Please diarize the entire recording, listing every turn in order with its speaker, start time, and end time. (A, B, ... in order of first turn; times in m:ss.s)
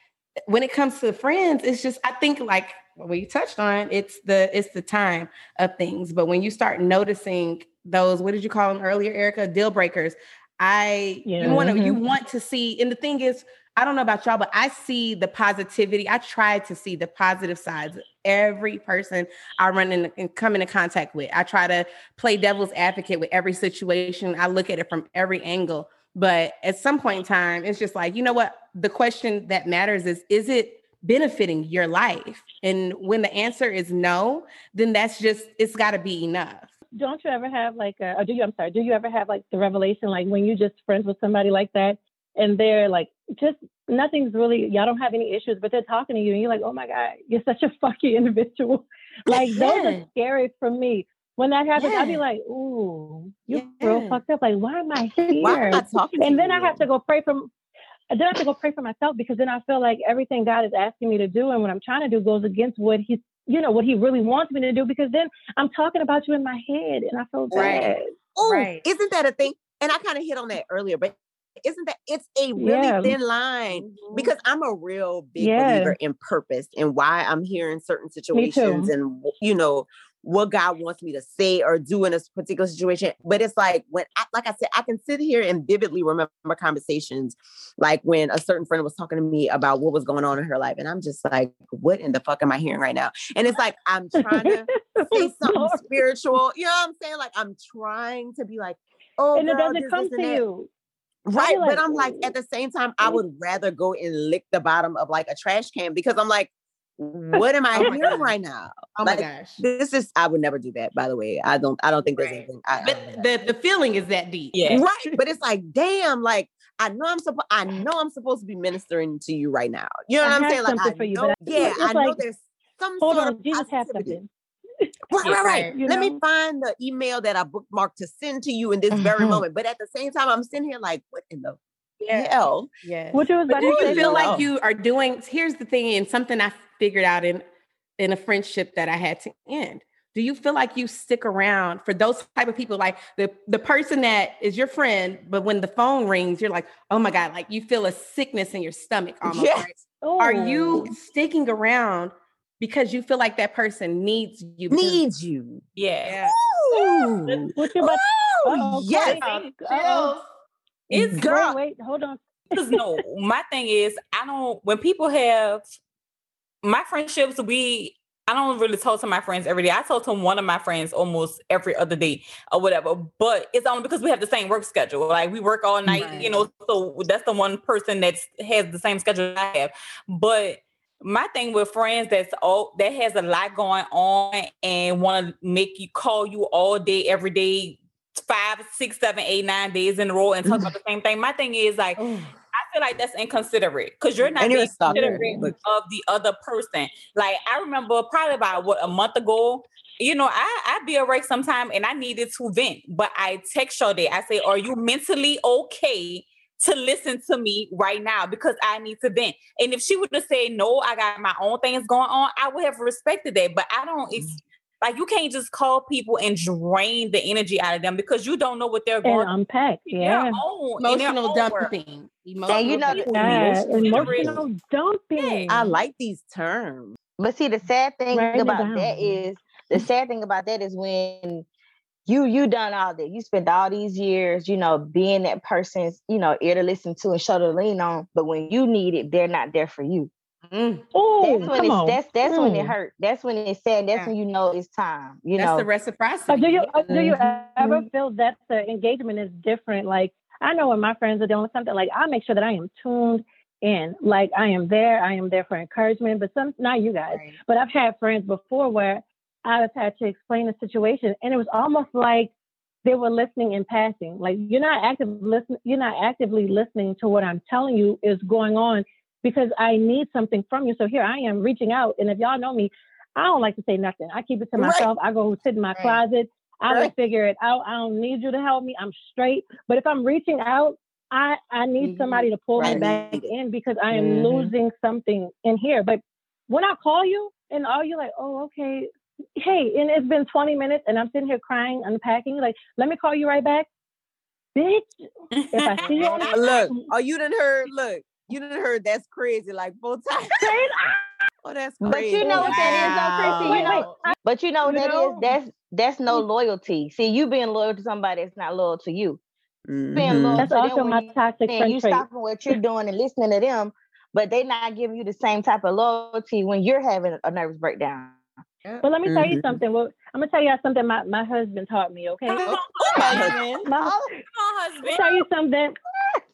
0:00.5-0:36.7 A
0:11.2-0:11.7 B
0:11.4-0:12.0 C
0:37.0-0:57.5 B
0:49.6-0:50.0 A
0:51.8-0:52.2 A
0:53.5-0:54.2 A
0:55.4-0:56.8 D
0:55.4-0:55.8 A
0:58.1-1:08.1 B
1:07.5-1:07.9 A
1:07.5-1:40.4 D
1:08.4-1:08.8 A
1:12.6-1:13.2 B
1:13.7-1:14.3 A
1:15.4-1:16.0 B
1:18.3-1:18.9 B
1:34.2-1:36.0 B
1:39.4-1:40.7 B
1:41.3-1:53.2 D
1:41.3-1:42.3 B
1:47.4-1:48.2 B
1:47.7-1:48.3 A
1:49.0-1:49.6 A
1:52.1-1:55.2 A
1:54.5-1:54.8 E
1:54.7-2:04.2 D
2:00.2-2:02.2 B
2:03.0-2:04.3 B
2:05.1-2:11.6 D
2:05.2-2:05.7 E
2:05.2-2:05.8 A
2:05.7-2:06.2 B
2:08.9-2:09.4 C
2:12.0-2:17.4 A
2:12.1-2:12.7 D
2:13.1-2:14.3 B
2:13.6-2:14.5 D
2:18.0-2:35.0 A
2:29.2-2:29.7 D
2:30.0-2:31.0 B
2:34.7-2:35.6 D
2:35.8-2:36.2 E
2:36.0-2:37.2 A
2:36.2-2:39.2 D
2:37.6-2:40.2 B
2:39.2-2:40.2 A
2:39.2-2:39.5 E
2:40.9-2:41.2 E
2:41.0-2:42.2 B
2:41.1-2:41.6 D
2:42.5-2:45.8 E
2:46.6-3:12.0 E
2:56.0-2:56.4 A
3:10.5-3:10.7 D
3:12.0-3:12.3 D
3:12.5-3:39.3 E
3:14.3-3:15.2 A
3:14.4-3:15.5 D
3:39.0-3:40.4 B
3:39.9-3:41.7 E
3:40.8-3:43.3 A
3:42.5-3:43.4 C
3:42.8-3:44.4 E
3:42.9-3:45.8 B
3:43.1-3:44.4 D
3:45.2-3:45.5 E
3:45.5-3:47.0 D
3:47.2-3:51.5 C
3:48.1-3:49.2 B
3:52.1-4:00.1 C
4:00.5-4:00.8 A
4:00.9-4:02.8 B
4:01.2-4:05.7 C
4:05.4-4:06.8 A
4:06.3-4:22.3 B
4:22.8-4:53.7 B
4:34.6-4:34.9 D
4:35.8-4:36.0 A
4:41.8-4:42.8 A
4:42.6-4:43.3 D
4:54.6-4:56.9 B
4:55.4-4:56.4 E
4:55.8-4:56.4 A
4:56.3-5:00.6 D
5:00.4-5:01.1 B
5:01.4-5:04.0 D
5:01.8-5:09.2 C
5:02.2-5:02.9 B
5:03.4-5:05.4 B
5:09.7-5:10.5 D
5:10.0-5:18.2 C
5:10.4-5:12.0 B
5:18.8-5:19.6 D
5:18.8-5:24.1 B
5:22.3-5:23.4 E
5:22.4-5:23.7 D
5:23.0-5:23.3 A
5:24.3-5:25.3 E
5:24.8-5:25.8 B